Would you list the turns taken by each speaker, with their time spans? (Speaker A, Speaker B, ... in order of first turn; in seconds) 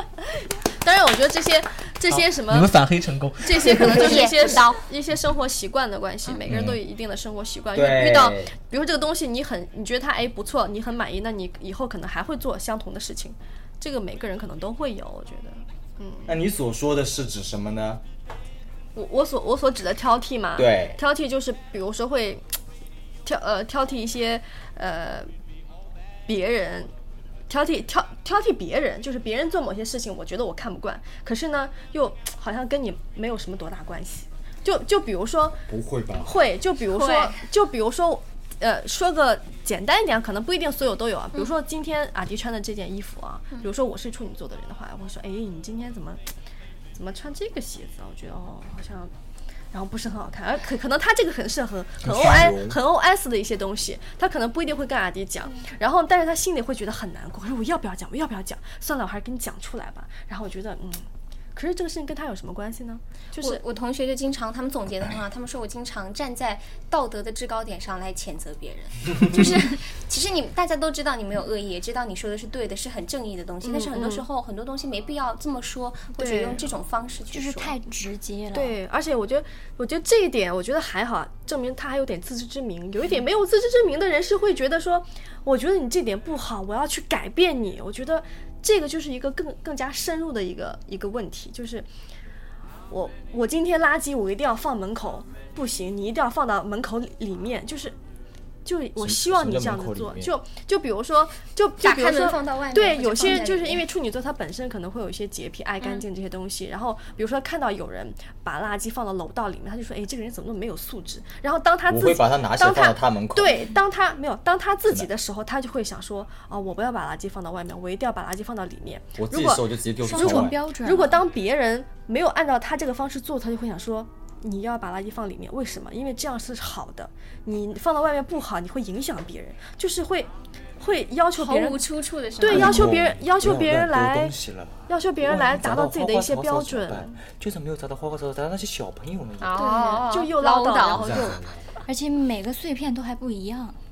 Speaker A: 0.8-2.8, 3.4-16.4, 18.9-22.4, 23.2-25.3, 26.3-26.9, 27.5-35.6, 36.2-46.2, 46.9-49.1, 49.7-63.6, 73.6-74.2, 76.2-76.6, 78.5-91.9, 92.9-97.9, 98.6-134.3, 134.9-137.2, 139.6-141.3
Speaker B: 2.1-4.2, 6.5-6.8, 52.1-52.4
Speaker C: 3.7-4.8, 36.9-37.4, 63.4-77.8, 101.8-103.8, 131.3-132.9, 139.4-141.4
Speaker D: 7.7-8.5, 16.3-18.0, 20.6-21.0, 35.7-36.3, 52.0-52.8, 99.0-100.3, 111.9-113.6, 119.2-120.6, 132.4-139.7, 140.9-141.7
Speaker E: 77.3-78.8, 120.0-121.2, 141.8-143.8